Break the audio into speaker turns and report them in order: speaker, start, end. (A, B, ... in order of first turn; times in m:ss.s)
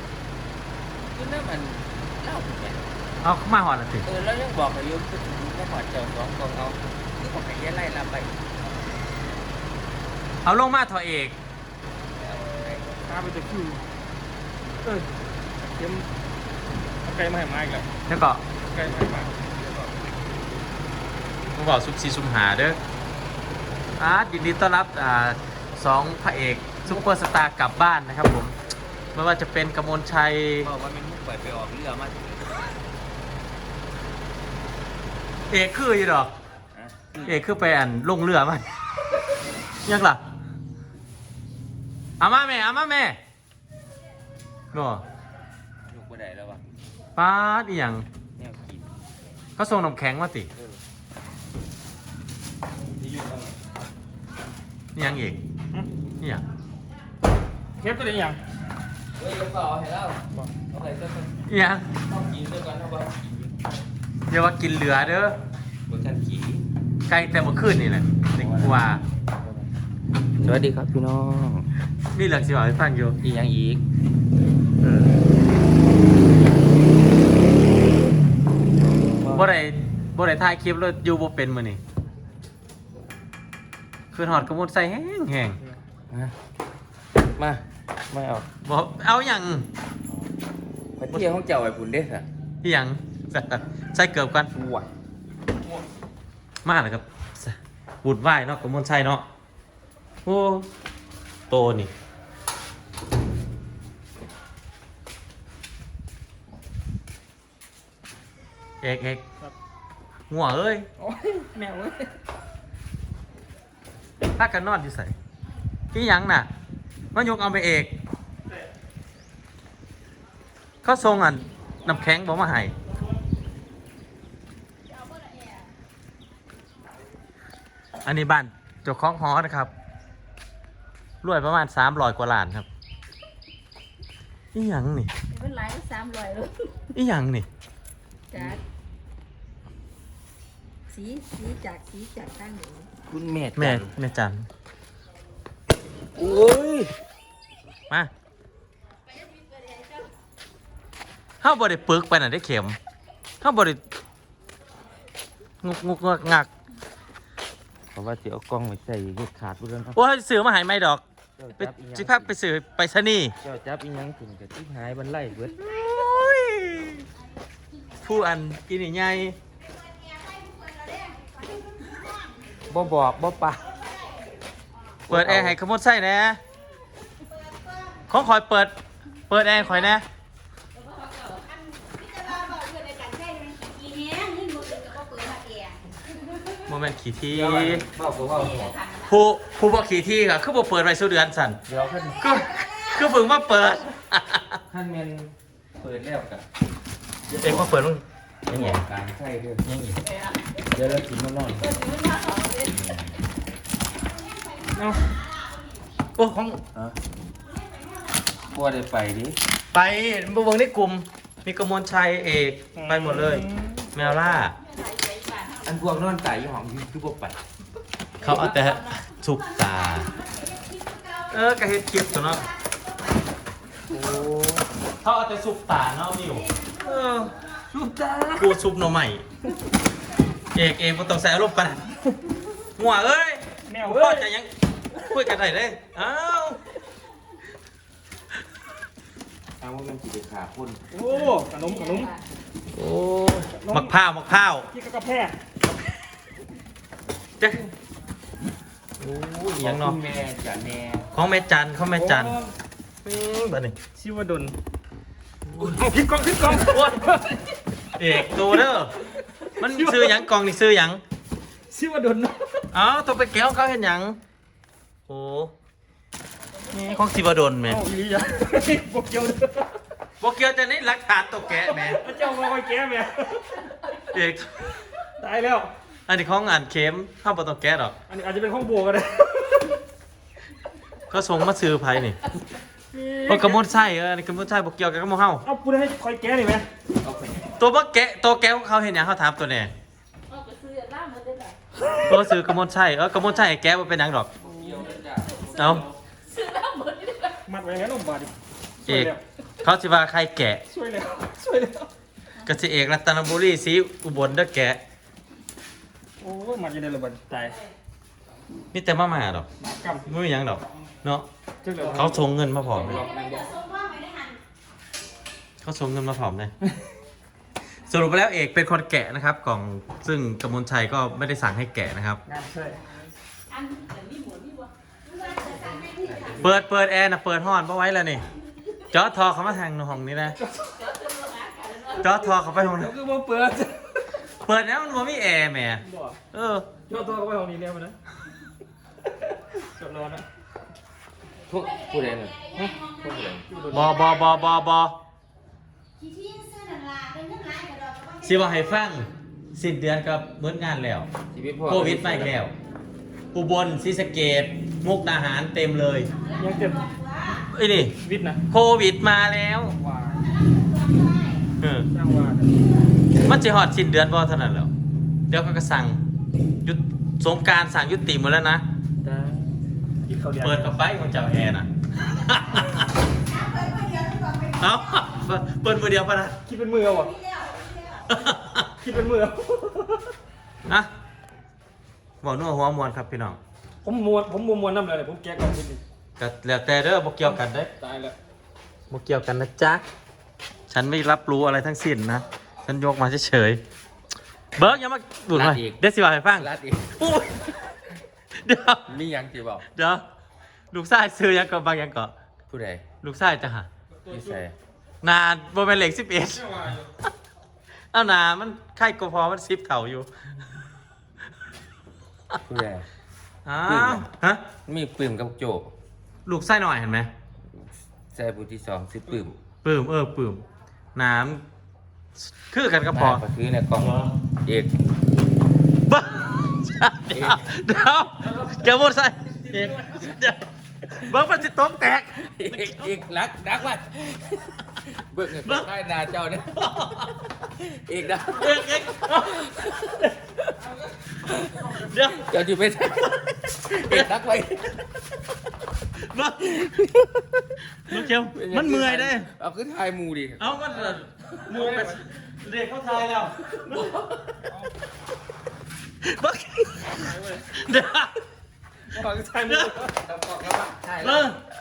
0:01.1-0:02.9 A
0:03.2-0:04.0 B
0:04.0-0:08.4 A
0:10.4-0:11.4 B
0:12.2-0:13.0 A
0:13.0-0:13.8 C
0:15.6-0:16.0 C
0:17.0-0:17.9 C
0:18.1-0:18.4 B
0:18.7-0:20.3 A
0:18.7-0:19.2 C
0:21.5-0:22.8 B
0:24.0-0:28.6 B
0:29.1-0:30.7 B
0:30.6-0:32.8 A
0:35.5-0:36.3 B
0:36.7-0:37.4 A
0:37.2-0:38.6 B
0:39.8-0:40.2 B
0:42.2-0:43.2 B
0:44.7-0:45.0 B
0:45.9-0:46.6 A
0:47.2-0:48.0 B
0:48.4-0:48.9 A
0:49.6-0:50.5 B
0:50.5-0:50.8 A
0:53.0-0:53.5 A
0:54.9-0:55.4 B
0:57.8-0:58.4 C
0:59.2-1:01.3 A
1:01.5-1:01.9 B
1:02.0-1:03.6 A
1:04.3-1:05.4 B
1:05.9-1:06.6 A
1:07.1-1:09.0 B
1:08.4-1:09.7 A
1:10.4-1:11.7 A
1:12.1-1:13.2 B
1:13.2-1:13.8 A
1:14.8-1:15.2 A
1:18.9-1:19.5 A
1:19.3-1:21.8 B
1:24.1-1:25.6 B
1:27.4-1:28.5 A
1:28.6-1:29.6 B
1:31.0-1:32.3 A
1:32.6-1:34.5 B
1:34.5-1:34.9 A
1:36.6-1:39.2 B
1:40.2-1:40.7 B
1:41.5-1:41.9 B
1:48.8-1:49.2 B
1:50.3-1:50.9 B
1:51.0-1:52.1 C
1:54.4-1:55.1 B
1:55.9-1:56.5 B
1:57.1-1:57.9 B
2:00.8-2:02.7 B
2:08.0-2:09.7 B
2:11.2-2:12.7 B
2:14.5-2:15.1 B
2:15.3-2:16.7 D
2:16.9-2:17.5 B
2:18.3-2:18.6 A
2:20.9-2:22.9 D
2:23.1-2:24.0 A
2:23.6-2:24.5 B
2:26.2-2:26.9 A
2:31.4-2:32.8 B
2:33.4-2:33.8 B
2:35.6-2:36.5 B
2:37.9-2:40.0 A
2:39.9-2:41.0 B
2:41.4-2:42.4 A
2:41.6-2:43.3 B
2:43.4-2:45.6 A
2:45.6-2:47.0 B
2:48.0-2:49.4 B
2:52.7-2:53.8 A
2:55.1-2:55.6 A
2:55.1-2:56.4 B
2:58.1-2:58.7 B
2:59.3-3:00.0 B
3:06.6-3:07.8 B
3:07.3-3:08.8 A
3:09.0-3:11.6 B
3:11.6-3:12.2 A
3:12.2-3:14.6 B
3:14.7-3:16.4 A
3:17.3-3:18.8 B
3:17.3-3:17.7 A
3:18.5-3:20.1 A
3:20.7-3:22.0 A
3:22.0-3:22.7 D
3:22.6-3:23.2 A
3:24.7-3:25.1 C
3:26.2-3:26.6 B
3:28.5-3:29.4 A
3:29.7-3:34.6 B
3:32.8-3:33.9 C
3:34.8-3:35.5 D
3:35.6-3:37.4 A
3:38.2-3:40.2 B
3:41.3-3:42.5 B
3:43.9-3:44.6 A
3:45.0-3:47.3 B
3:47.6-3:48.5 A
3:48.3-3:49.2 B
3:50.5-3:52.0 B
3:52.8-3:56.6 B
3:53.7-3:54.3 C
3:59.6-4:00.8 A
4:00.9-4:02.1 C
4:01.6-4:02.2 D
4:02.7-4:04.7 B
4:03.5-4:03.9 C
4:04.7-4:05.4 C
4:07.4-4:07.7 B
4:09.0-4:10.0 B
4:09.6-4:11.1 A
4:11.1-4:12.4 B
4:11.9-4:12.5 C
4:13.0-4:13.8 B
4:14.0-4:14.5 C
4:15.6-4:17.4 C
4:18.0-4:19.0 B
4:19.6-4:21.0 B
4:19.6-4:20.2 C
4:21.7-4:22.5 C
4:22.7-4:24.2 B
4:25.1-4:25.5 B
4:26.7-4:27.8 B
4:27.7-4:29.7 C
4:30.2-4:32.0 B
4:31.9-4:33.6 C
4:34.0-4:34.8 B
4:35.2-4:35.7 C
4:36.1-4:38.0 B
4:38.1-4:39.8 C
4:41.1-4:42.3 B
4:42.9-4:43.7 C
4:43.2-4:45.4 B
4:45.4-4:46.6 C
4:47.0-4:47.5 A
4:47.6-4:49.7 B
4:50.3-4:51.6 D
4:52.0-4:54.3 B
4:54.4-4:56.0 A
4:55.5-4:55.8 B
4:56.3-4:57.4 D
4:57.4-4:59.2 C
4:58.8-5:00.6 B
5:00.7-5:01.9 C
5:02.4-5:04.8 B
5:06.2-5:07.6 C
5:08.7-5:09.5 B
5:09.6-5:10.1 C
5:10.0-5:11.3 B
5:11.6-5:12.2 C
5:11.9-5:13.1 B
5:13.0-5:13.6 C
5:15.6-5:16.5 B
5:17.8-5:22.2 B
5:22.3-5:22.8 C
5:23.6-5:24.7 D
5:25.4-5:26.6 A
5:26.4-5:28.2 B
5:28.9-5:30.4 B
5:30.8-5:31.9 D
5:31.9-5:33.0 B
5:32.6-5:34.1 C
5:34.2-5:36.7 B
5:35.9-5:36.2 C
5:36.9-5:38.0 C
5:39.4-5:40.2 C
5:41.5-5:43.4 A
5:43.5-5:43.9 C
5:43.7-5:44.9 B
5:48.1-5:51.1 B
5:51.3-5:52.4 A
5:51.7-5:52.5 B
5:53.3-5:56.1 B
5:56.4-5:56.9 C
5:57.4-5:58.0 B
5:58.0-5:58.4 C
5:58.5-5:59.8 B
5:59.8-6:00.3 C
6:01.6-6:01.9 B
6:01.9-6:02.6 C
6:03.2-6:04.7 B
6:05.3-6:06.0 B
6:06.6-6:08.6 B
6:09.0-6:09.6 C
6:10.1-6:10.9 C
6:10.4-6:12.9 B
6:14.4-6:16.4 B
6:16.5-6:17.2 C
6:18.1-6:18.7 B
6:18.8-6:20.1 C
6:22.2-6:23.4 B
6:23.8-6:25.8 C
6:26.2-6:27.7 B
6:27.8-6:28.1 C
6:28.9-6:29.8 B
6:30.7-6:33.6 B
6:34.6-6:37.8 B
6:35.3-6:35.8 A
6:36.4-6:37.0 A
6:38.4-6:38.8 B
6:38.9-6:39.6 A
6:39.7-6:40.0 B
6:40.7-6:42.1 B
6:42.5-6:42.8 A
6:43.0-6:43.7 B
6:44.1-6:44.5 A
6:45.0-6:47.1 B
6:46.4-6:46.8 C
6:47.9-6:50.1 B
6:52.4-6:52.9 A
6:53.4-6:54.4 B
6:53.6-6:54.1 A
6:54.6-6:55.7 A
6:56.2-6:57.1 B
6:57.6-6:59.4 A
6:59.6-7:00.4 B
7:01.0-7:01.4 B
7:02.2-7:03.2 B
7:02.9-7:04.7 A
7:03.8-7:04.1 B
7:05.9-7:10.4 B
7:07.1-7:07.5 A
7:10.9-7:12.9 B
7:12.2-7:16.6 A
7:16.5-7:17.3 B
7:17.5-7:20.0 A
7:18.3-7:20.2 B
7:21.0-7:24.8 A
7:21.7-7:22.3 B
7:23.0-7:24.1 B
7:26.0-7:26.8 B
7:26.5-7:27.4 A
7:27.8-7:29.3 B
7:28.3-7:32.0 A
7:30.4-7:33.9 B
7:31.5-7:32.0 C
7:33.6-7:34.1 A
7:36.0-7:38.2 B
7:37.0-7:37.5 C
7:38.9-7:39.9 C
7:39.5-7:39.8 B
7:40.0-7:41.3 A
7:41.0-7:41.4 B